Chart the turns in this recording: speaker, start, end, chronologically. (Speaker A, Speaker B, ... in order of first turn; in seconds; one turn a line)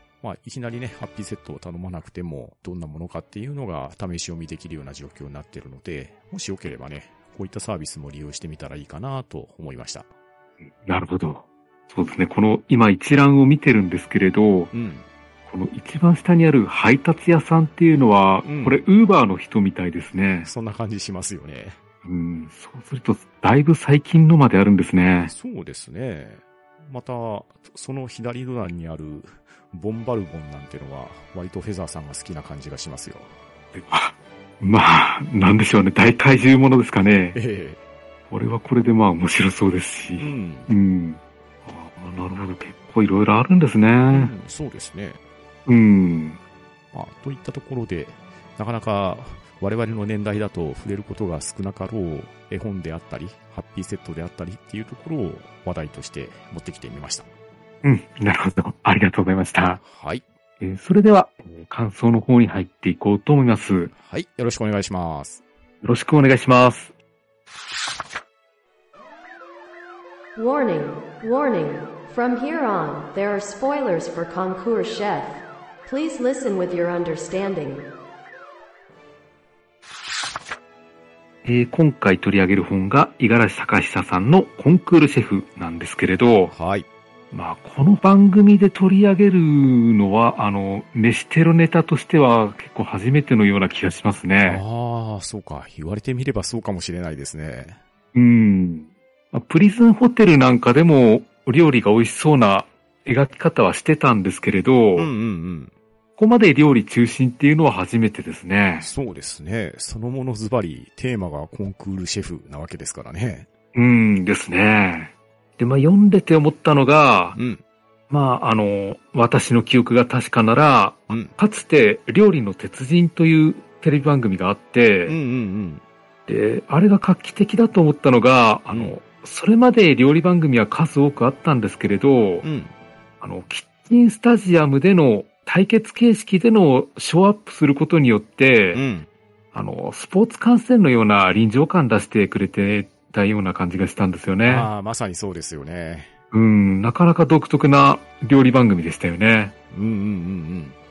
Speaker A: 0.2-10.1
Speaker B: 10.8-14.7
Speaker A: 14.7-15.1
Speaker B: 15.5-20.5
Speaker A: 18.5-18.9
Speaker A: 20.4-21.8
Speaker B: 22.1-25.3
Speaker A: 25.3-33.3
Speaker B: 33.7-37.4
Speaker A: 37.1-37.8
Speaker B: 38.3-44.3
Speaker A: 40.2-40.7
Speaker A: 44.1-45.2
Speaker B: 45.7-46.4
Speaker A: 46.9-57.3
Speaker B: 57.8-59.8
Speaker A: 59.8-60.2
Speaker B: 60.6-63.9
Speaker A: 63.9-65.4
Speaker B: 65.8-66.9
Speaker C: 70.4-77.9
Speaker B: 81.5-86.5
Speaker A: 86.5-86.9
Speaker B: 87.3-94.6
Speaker A: 94.5-97.8
Speaker B: 98.1-105.1
Speaker A: 105.0-105.7
Speaker B: 106.2-108.9
Speaker A: 108.8-113.5
Speaker B: 113.7-117.4
Speaker A: 117.3-117.6
Speaker B: 118.1-125.2
Speaker A: 121.1-121.3
Speaker A: 125.1-125.8
Speaker B: 126.3-132.4
Speaker A: 132.4-132.7
Speaker B: 133.2-138.8
Speaker A: 138.7-139.1
Speaker B: 139.5-144.7
Speaker A: 144.4-146.1
Speaker B: 146.3-149.5
Speaker A: 149.7-150.8